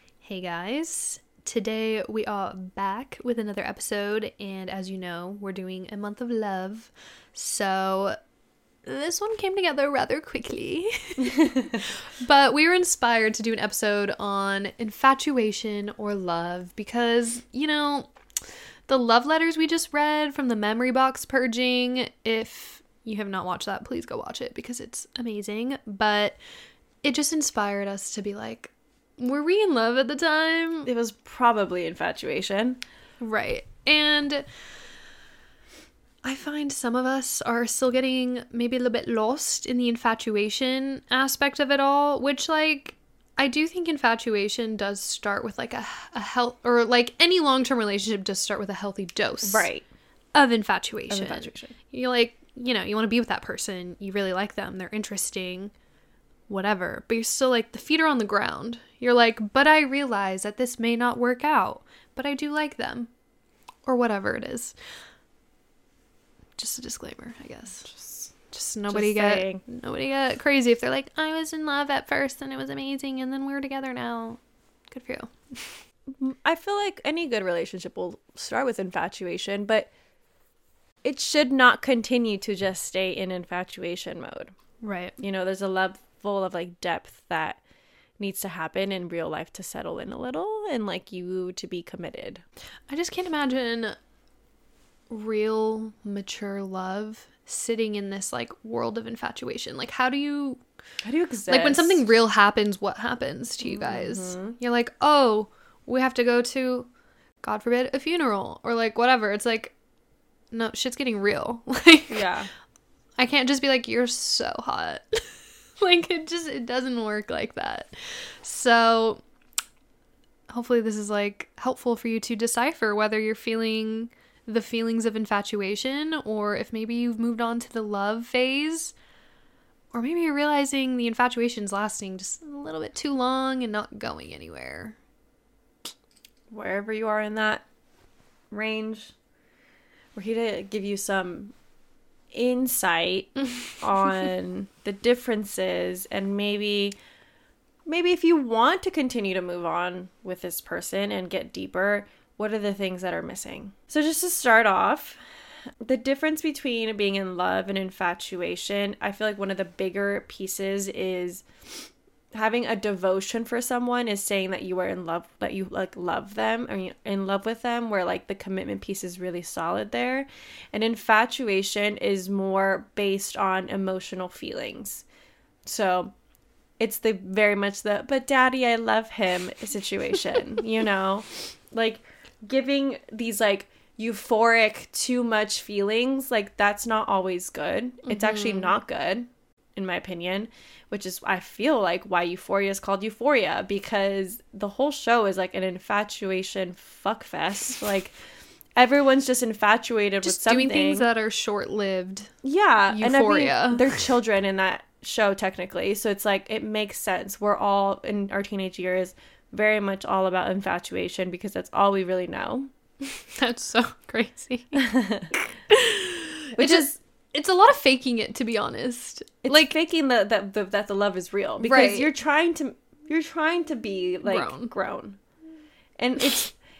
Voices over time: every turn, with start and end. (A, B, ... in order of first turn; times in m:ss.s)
0:00.2-0:08.2 A
0:08.8-0:18.1 A
0:18.9-0:26.4 A
0:27.0-0:30.9 A
0:30.8-0:32.8 B
0:33.2-0:34.4 A
0:36.2-0:49.7 A
0:49.4-0:49.8 B
0:50.3-0:55.7 A
0:51.1-0:51.8 B
0:56.5-1:03.1 A
1:03.8-1:04.7 A
1:06.6-1:07.9 A
1:07.9-1:08.3 B
1:08.5-1:14.4 A
1:08.9-1:09.6 B
1:14.9-1:15.6 A
1:16.1-1:19.9 B
1:21.0-1:24.5 B
1:24.8-1:25.2 A
1:25.2-1:27.6 B
1:28.2-1:32.4 B
1:32.9-1:34.0 A
1:35.1-1:40.6 A
1:41.0-1:42.0 B
1:41.5-1:46.9 A
1:43.6-1:44.6 B
1:47.4-1:49.7 A
1:50.5-1:52.2 A
1:52.1-1:52.5 B
1:53.2-1:55.3 A
1:55.8-1:57.9 A
1:58.4-1:59.2 A
2:00.5-2:08.9 A
2:09.9-2:15.0 A
2:16.5-2:17.6 B
2:18.5-2:19.1 B
2:20.1-2:21.5 B
2:22.3-2:27.0 B
2:27.8-2:35.2 B
2:35.8-2:41.4 B
2:42.3-2:55.0 B
2:55.6-2:56.1 B
2:56.8-3:18.1 B
3:08.1-3:08.7 A
3:18.8-3:21.1 B
3:20.2-3:22.3 A
3:22.4-3:32.7 B
3:22.9-3:24.0 A
3:33.0-3:34.9 A
3:34.7-3:35.3 B
3:35.7-3:39.7 A
3:36.6-3:37.0 B
3:39.4-3:45.2 B
3:41.6-3:42.1 A
3:44.2-3:44.7 A
3:46.0-3:46.5 B